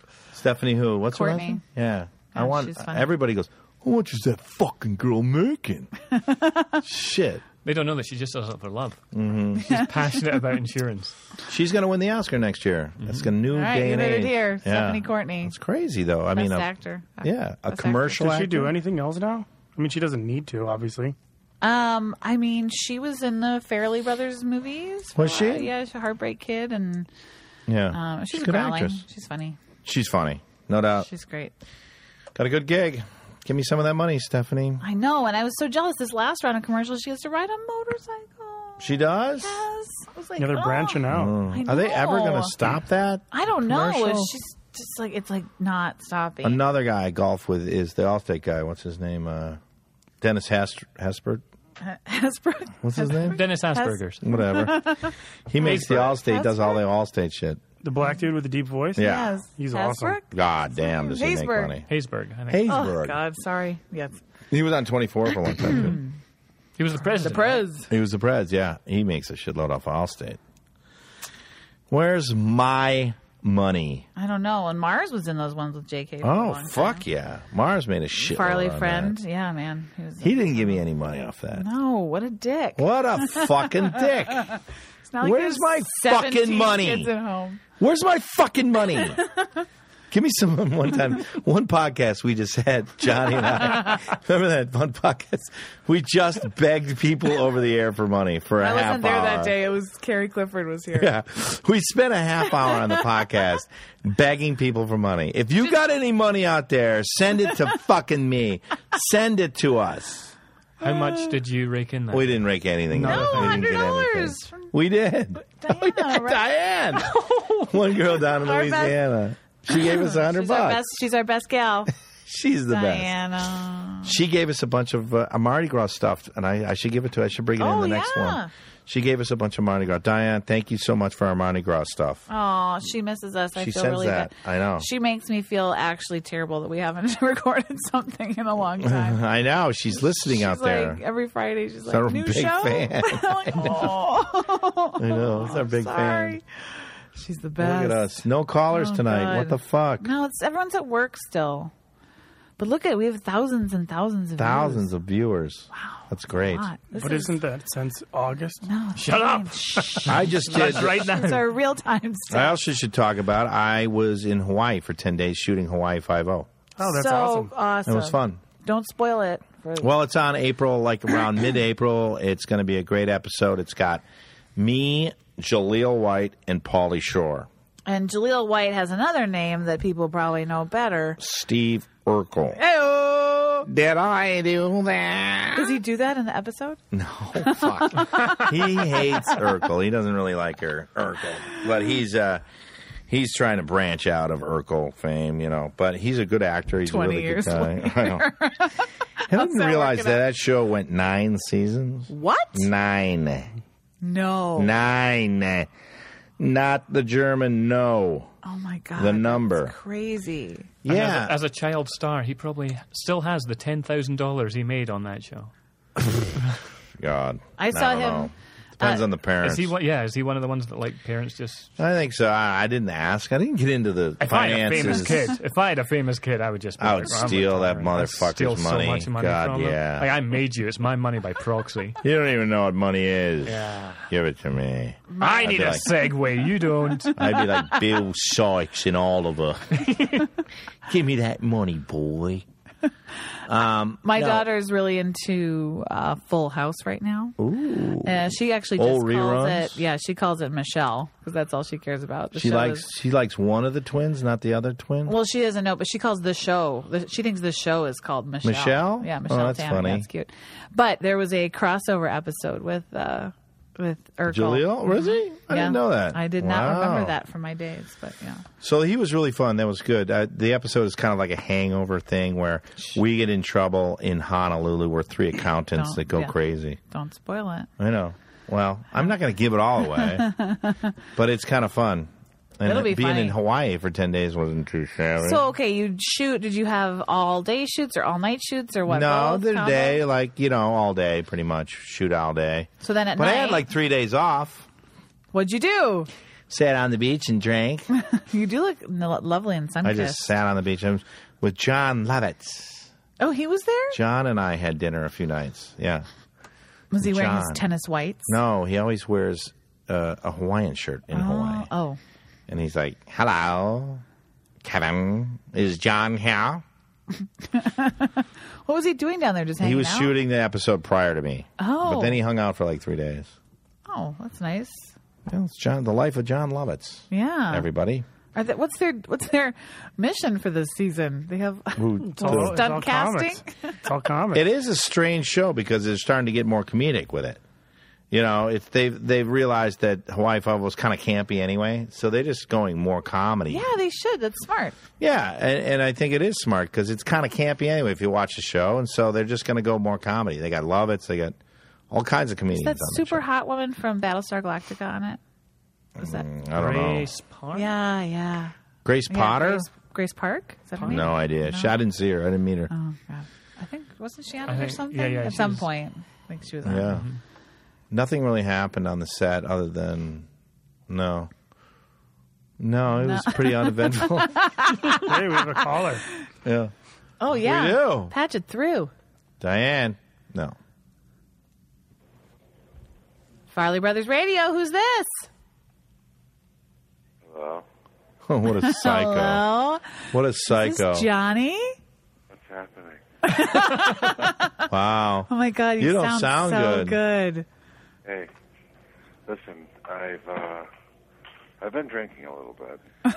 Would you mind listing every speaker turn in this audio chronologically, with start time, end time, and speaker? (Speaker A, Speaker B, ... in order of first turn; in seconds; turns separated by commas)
Speaker A: 0.3-5.9, Speaker B: 1.1-1.6, Speaker B: 2.3-3.1, Speaker B: 6.2-6.8, Speaker A: 6.8-7.4, Speaker C: 7.6-9.0, Speaker A: 9.1-9.8, Speaker C: 9.6-11.2, Speaker A: 11.5-16.7, Speaker C: 13.0-13.3, Speaker B: 13.5-15.5, Speaker B: 16.3-18.2, Speaker A: 17.2-18.7, Speaker D: 18.2-21.1, Speaker B: 21.6-27.1, Speaker A: 25.1-25.7, Speaker A: 27.7-29.0, Speaker B: 27.9-29.6, Speaker A: 29.8-31.1, Speaker B: 31.0-31.5, Speaker A: 32.3-34.8, Speaker B: 34.8-42.5, Speaker A: 38.8-39.6, Speaker D: 40.4-41.4, Speaker A: 41.1-43.2, Speaker B: 43.3-46.6, Speaker A: 43.8-44.2, Speaker A: 46.4-49.6, Speaker A: 50.2-51.4, Speaker B: 51.8-56.8, Speaker A: 52.8-53.4, Speaker C: 53.3-54.5, Speaker A: 54.2-57.6, Speaker C: 55.6-56.2, Speaker D: 57.8-60.2, Speaker A: 59.0-59.3, Speaker B: 59.0-60.2, Speaker A: 60.3-61.9, Speaker B: 60.8-61.7, Speaker C: 61.9-62.7, Speaker A: 62.5-63.2, Speaker B: 62.6-64.2, Speaker A: 64.5-66.0, Speaker B: 65.7-66.1, Speaker C: 66.8-67.7, Speaker B: 67.2-67.9, Speaker A: 67.9-70.4, Speaker A: 71.9-74.0, Speaker B: 74.2-77.0, Speaker A: 76.2-79.2, Speaker B: 78.2-80.8, Speaker A: 80.2-81.7, Speaker B: 81.5-83.5, Speaker A: 82.8-84.5, Speaker B: 84.4-87.6, Speaker A: 85.2-87.1, Speaker A: 87.8-89.2, Speaker B: 89.2-89.5, Speaker A: 90.1-99.5, Speaker B: 98.6-101.1, Speaker A: 100.9-110.3, Speaker C: 110.8-113.8, Speaker A: 112.1-117.1, Speaker B: 113.1-114.7, Speaker B: 115.5-116.4, Speaker A: 117.6-120.8, Speaker B: 118.3-119.0, Speaker B: 119.7-121.9, Speaker A: 122.2-123.1, Speaker B: 122.7-124.1, Speaker A: 124.0-132.2, Speaker B: 127.6-128.5, Speaker B: 132.3-139.2, Speaker A: 133.6-134.9, Speaker A: 138.8-141.0, Speaker B: 140.0-148.1, Speaker A: 141.8-144.0, Speaker A: 145.0-146.4, Speaker A: 147.6-150.1, Speaker B: 148.7-151.7, Speaker B: 152.6-154.8, Speaker A: 154.4-156.7, Speaker B: 155.7-157.4, Speaker D: 156.9-158.7, Speaker B: 158.6-162.5, Speaker C: 159.0-161.5, Speaker A: 160.1-160.9, Speaker A: 162.3-166.5, Speaker D: 166.8-167.5, Speaker B: 166.8-169.9, Speaker A: 167.8-168.4, Speaker A: 169.8-174.0, Speaker A: 174.6-177.5, Speaker B: 177.8-181.2, Speaker A: 181.2-182.6, Speaker B: 182.6-183.7, Speaker A: 183.7-185.8, Speaker B: 185.5-186.8, Speaker A: 186.9-192.4, Speaker B: 187.4-189.2, Speaker A: 193.1-198.3, Speaker B: 196.8-200.2, Speaker A: 199.3-203.5, Speaker B: 202.1-202.6, Speaker B: 204.0-204.7, Speaker A: 204.6-205.7, Speaker A: 206.4-208.3, Speaker B: 208.4-210.7, Speaker A: 208.9-209.7, Speaker A: 210.8-211.3, Speaker C: 210.8-215.5, Speaker A: 217.0-219.7, Speaker B: 217.6-219.0, Speaker C: 219.4-221.7, Speaker A: 221.8-225.3, Speaker C: 224.2-232.0, Speaker A: 226.8-230.1, Speaker A: 232.0-235.8, Speaker C: 233.4-234.1, Speaker B: 235.1-235.7, Speaker C: 235.2-237.1, Speaker A: 237.2-239.9, Speaker C: 239.8-240.1, Speaker A: 240.9-242.4, Speaker A: 243.5-244.4, Speaker B: 244.0-247.3, Speaker A: 247.4-249.8, Speaker B: 248.0-252.8, Speaker A: 252.3-255.1, Speaker B: 255.1-268.4, Speaker A: 258.4-260.1, Speaker A: 264.3-267.1, Speaker A: 268.6-276.8, Speaker B: 275.7-277.7, Speaker A: 277.8-280.3, Speaker B: 279.9-280.9, Speaker A: 281.1-285.4, Speaker B: 282.6-283.3, Speaker B: 285.2-290.0, Speaker A: 288.9-294.7, Speaker B: 292.8-293.6, Speaker B: 295.3-296.1, Speaker A: 296.5-297.9, Speaker B: 297.9-300.2, Speaker A: 299.8-302.9, Speaker B: 303.2-304.0, Speaker A: 303.9-306.1, Speaker B: 306.9-308.3, Speaker A: 307.0-307.6, Speaker A: 308.3-311.7, Speaker B: 311.1-312.0, Speaker A: 312.5-314.0, Speaker A: 314.6-316.6, Speaker B: 317.2-320.1, Speaker A: 319.6-323.3, Speaker B: 321.6-322.2, Speaker B: 323.9-324.9, Speaker A: 325.3-328.1, Speaker B: 327.1-327.7, Speaker B: 328.3-333.7, Speaker A: 331.8-332.8, Speaker D: 332.0-334.4, Speaker A: 334.3-337.4, Speaker A: 338.1-343.7, Speaker B: 343.5-344.8, Speaker A: 345.0-351.4, Speaker A: 351.9-353.2, Speaker B: 352.6-355.2, Speaker A: 356.0-357.1, Speaker B: 356.0-356.2, Speaker C: 356.5-357.7, Speaker B: 357.5-358.5, Speaker A: 358.8-359.6, Speaker B: 359.1-361.8, Speaker C: 360.8-361.1, Speaker A: 360.9-362.7, Speaker B: 362.7-367.0, Speaker C: 364.5-365.7, Speaker A: 366.6-367.1, Speaker C: 366.8-367.2, Speaker A: 367.9-370.3, Speaker A: 370.9-371.3, Speaker A: 372.6-374.5, Speaker B: 373.0-375.1, Speaker D: 375.0-376.1, Speaker A: 376.4-376.7, Speaker B: 377.2-378.9, Speaker A: 377.3-378.1, Speaker A: 379.4-380.6, Speaker B: 383.5-385.3, Speaker E: 387.2-387.6, Speaker A: 388.3-389.4, Speaker B: 388.6-391.8, Speaker A: 390.1-391.1, Speaker E: 392.3-393.4, Speaker B: 393.2-394.6, Speaker A: 394.7-397.0, Speaker B: 395.3-397.4, Speaker E: 398.0-398.3, Speaker E: 399.2-400.7, Speaker E: 401.6-402.8